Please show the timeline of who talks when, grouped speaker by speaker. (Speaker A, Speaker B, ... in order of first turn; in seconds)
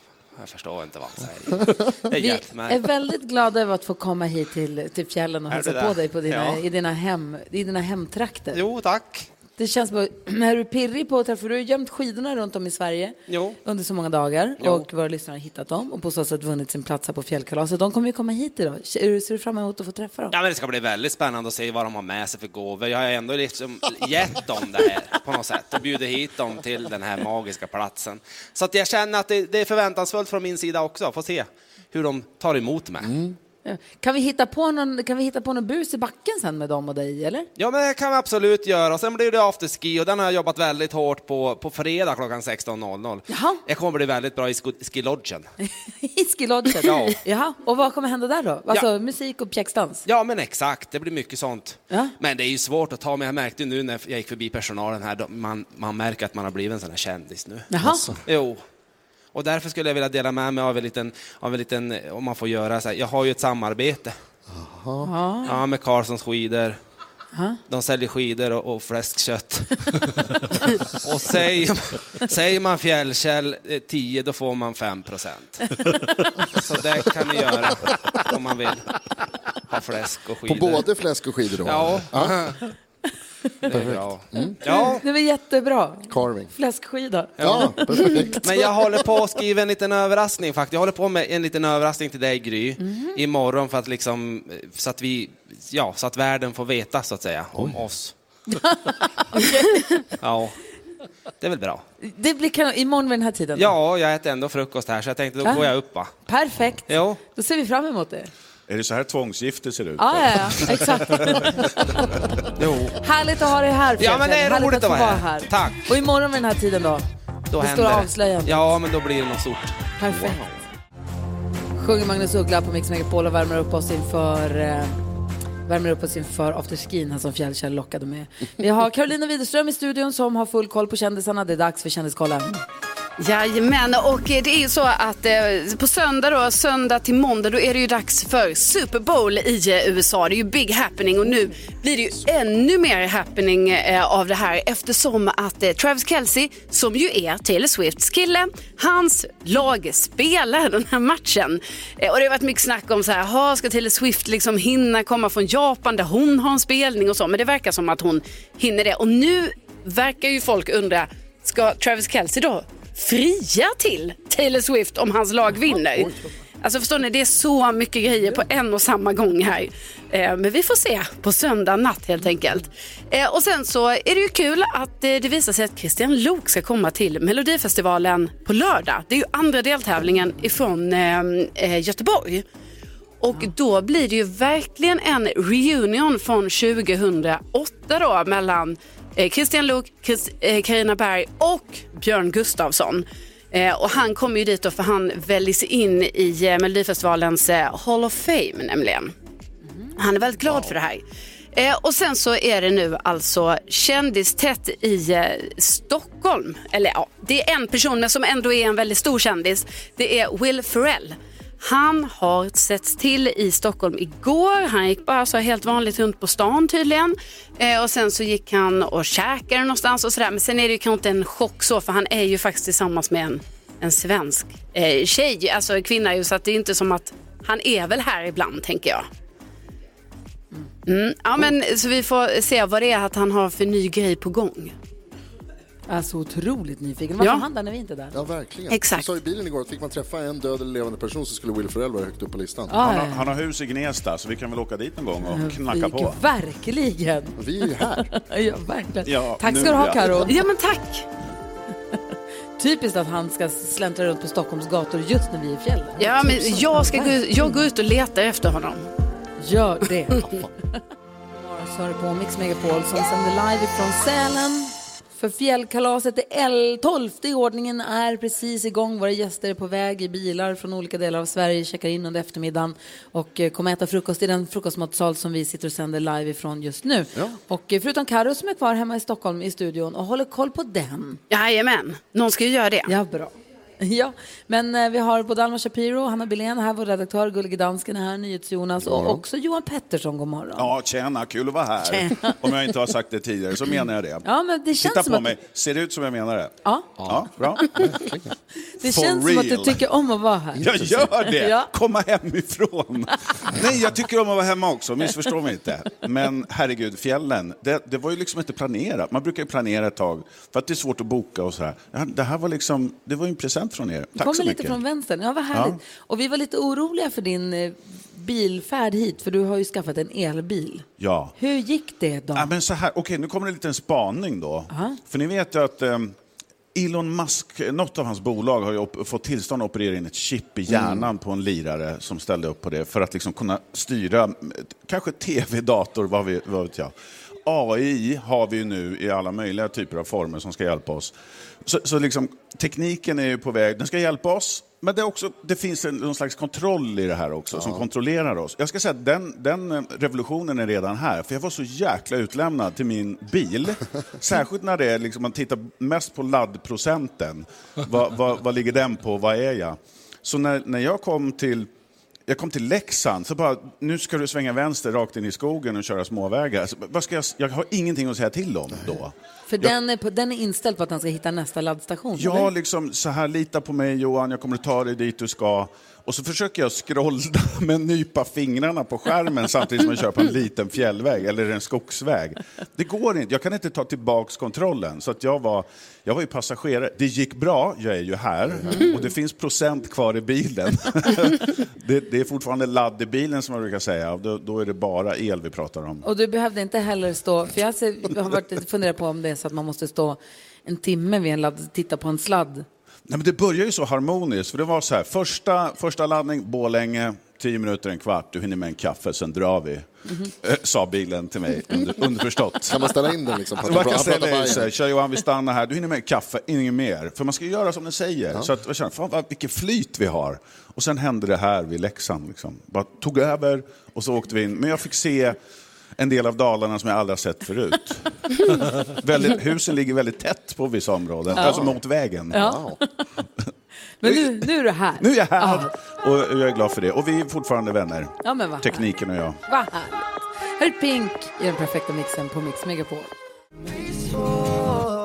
Speaker A: 0.4-2.9, 5.5-6.6, 8.5-9.3, 13.3-13.6, 14.6-14.9, 20.3-33.1, 37.6-45.5, 46.8-47.2, 50.0-57.7, 58.2-58.6, 59.3-64.2, 65.4-66.8, 67.7-75.8, 76.5-78.9, 79.7-80.9, 81.6-82.6, 83.7-85.0, 87.4-87.8, 88.4-98.1, 100.1-100.6, 101.4-101.8, 103.5-106.1, 106.9-107.2, 112.6-113.0, 114.0-116.0, 117.5-119.8
Speaker B: 2.1-8.6, 9.6-20.3, 33.6-37.5, 43.3-43.6, 45.9-50.0, 57.7-58.0, 65.0-65.6, 67.3-67.6, 84.6-88.4, 92.8-93.2, 98.5-99.8, 102.0-103.7, 105.4-105.7, 106.2-108.3, 110.0-111.6, 113.0-117.0, 117.6-118.7, 120.0-120.5, 121.8-125.0, 125.7-132.6, 235.9-238.1, 242.7-243.3, 245.3-250.4, 252.6-257.5, 259.4-260.8, 261.4-281.2, 282.9-290.7, 291.9-292.4, 294.2-295.3, 296.6-296.9, 298.8-301.7, 314.1-322.5, 324.7-325.0, 369.5-372.5, 396.0-402.6, 431.3-431.6, 432.3-433.1, 434.0-435.7, 438.2-438.8, 439.4-443.1
Speaker C: 33.0-33.4, 57.8-58.2, 64.5-65.1, 80.5-82.5, 83.7-84.5, 86.1-86.5, 87.4-88.7, 238.1-242.8, 247.4-248.1, 288.8-289.2, 297.8-298.2, 330.7-331.1, 347.5-347.9, 388.5-388.9, 412.6-414.7, 431.3-431.8, 432.3-432.8
Speaker D: 108.7-112.0, 242.8-246.2, 249.0-250.3, 290.6-294.2, 294.8-296.5, 297.1-297.8, 298.8-299.8, 300.6-314.8, 315.5-315.8, 321.0-321.3, 322.3-326.1, 326.7-336.9, 337.4-341.1, 341.6-361.7, 362.3-369.7, 372.2-396.1, 403.1-413.0, 413.5-425.4, 426.0-432.5, 434.1-434.4, 435.0-439.4
Speaker E: 133.2-182.4, 183.2-199.1, 199.9-229.1, 230.8-234.7, 238.7-239.0, 250.3-251.1, 256.0-258.9, 281.3-282.9